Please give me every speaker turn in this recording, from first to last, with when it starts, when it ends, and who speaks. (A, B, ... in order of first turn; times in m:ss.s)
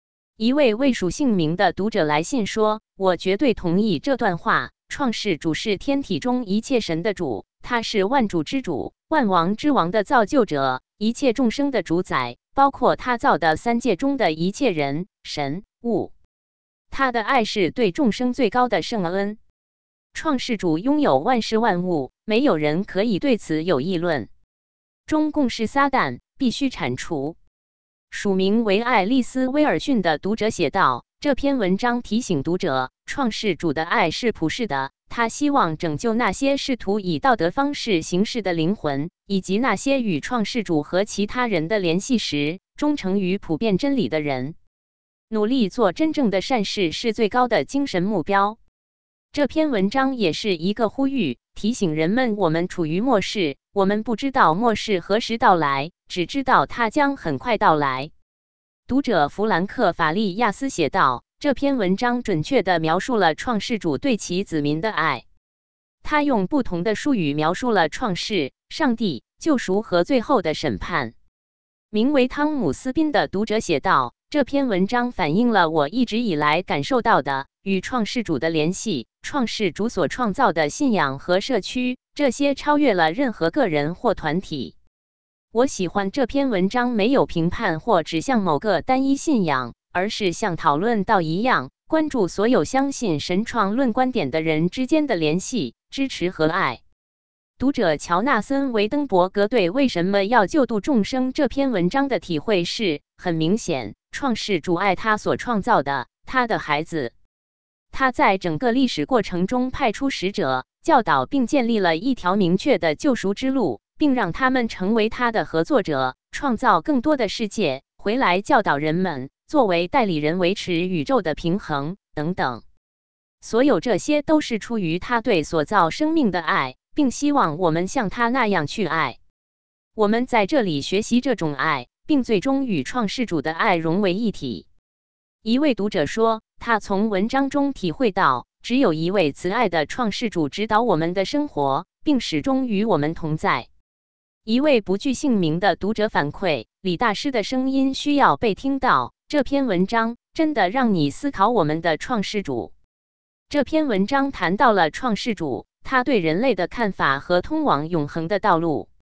0:00.4-0:16.1 A
0:16.9-0:19.4 A
0:20.1-0:24.3 A
0:25.1-0:27.4 A
0:28.1-0:44.6 A
0:45.3-0:48.6 A
0:49.3-0:58.1 A
0:58.9-1:05.2 A
1:06.0-1:11.1 A
1:11.9-1:24.8 A
1:25.5-1:36.8 A
1:37.6-1:47.1 A
1:47.9-2:02.6 A
2:03.4-2:09.2 A
2:10.0-2:14.7 A
2:15.4-2:23.7 A
2:24.4-2:32.7 A
2:33.5-2:38.9 A